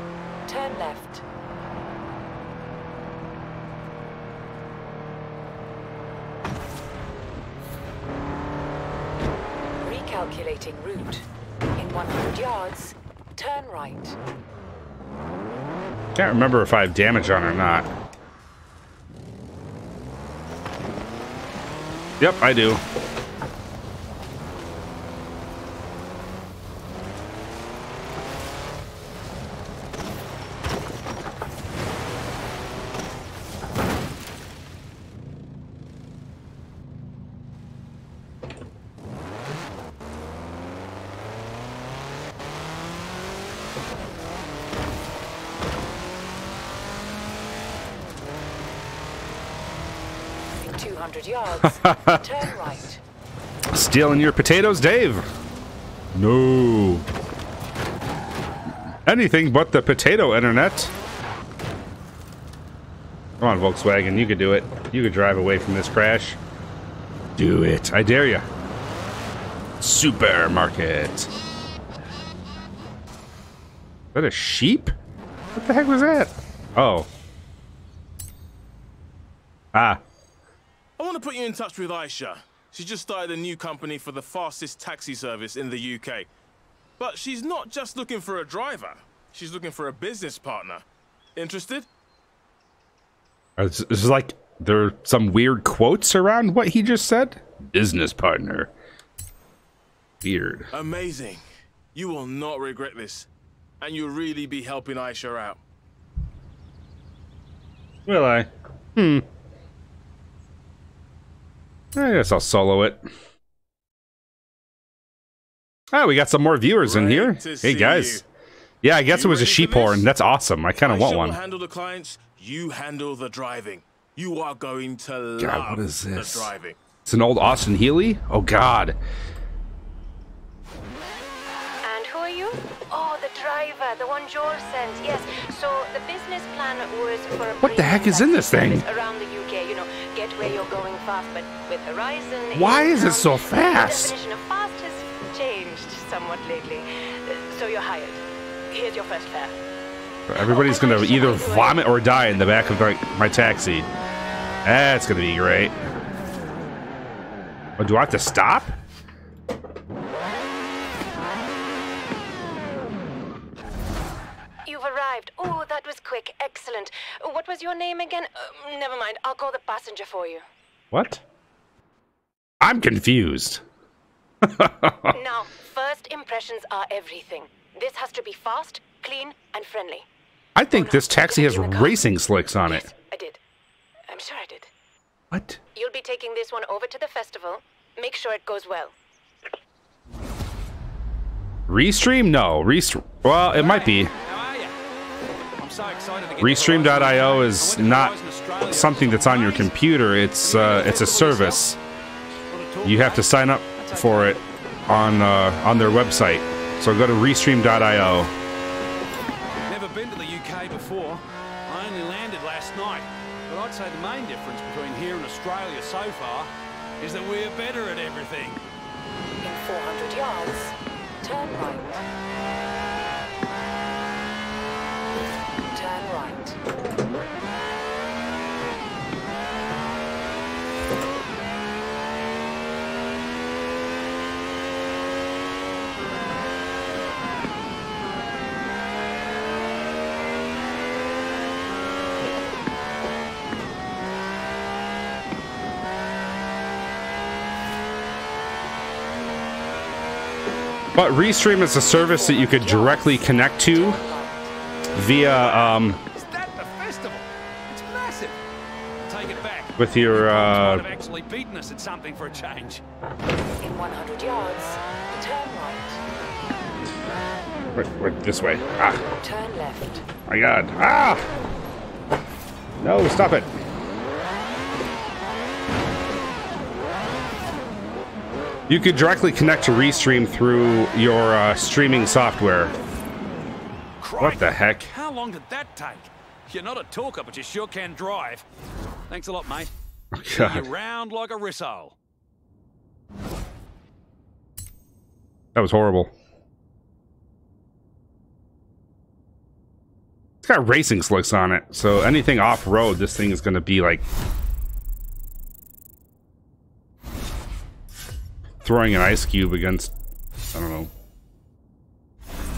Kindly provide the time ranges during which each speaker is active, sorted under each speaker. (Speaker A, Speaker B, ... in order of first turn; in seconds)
Speaker A: 0.5-1.2, 9.8-11.3, 11.8-14.2, 50.6-53.0, 219.4-222.0, 225.7-226.6, 251.9-254.5, 263.6-266.0, 269.2-270.1
Speaker B: 16.2-17.9, 22.2-22.8, 51.6-52.2, 53.7-55.3, 56.1-57.0, 59.1-60.9, 63.4-66.4, 67.4-68.5, 69.8-71.3, 74.2-74.9, 75.6-77.1, 79.7-80.0, 93.6-98.7, 100.2-100.7, 108.1-109.2, 112.0-113.0, 115.9-118.2, 118.8-121.4, 125.4-126.5, 127.1-129.0, 137.6-138.8, 142.5-144.1, 150.3-153.9, 154.7-155.8, 157.8-158.7, 170.9-171.2, 172.6-173.6, 174.4-175.2, 180.6-182.9, 185.3-185.6, 191.7-194.1, 196.4-201.8, 202.8-208.3, 250.9-254.0, 254.9-256.0, 259.8-260.9, 267.8-269.1, 270.3-271.3, 272.8-273.5, 278.7-282.8, 284.2-284.9, 290.1-290.7, 295.6-296.1, 300.4-304.1, 308.6-309.9, 310.5-310.9
Speaker C: 81.0-86.3, 87.0-90.8, 91.4-91.9, 100.7-101.4, 101.9-103.3, 103.8-105.6, 116.8-118.2, 119.1-120.1, 120.8-126.8
Speaker D: 131.8-149.6, 150.4-152.4, 164.7-170.4, 175.1-180.1, 180.7-182.0, 182.7-183.4, 184.1-184.7, 185.7-188.9
Speaker E: 193.5-194.7, 195.6-199.7, 200.4-201.8, 202.5-204.4, 209.7-216.5, 217.0-218.6, 255.2-258.4, 259.0-262.8, 284.0-288.4, 289.1-289.7, 290.3-292.0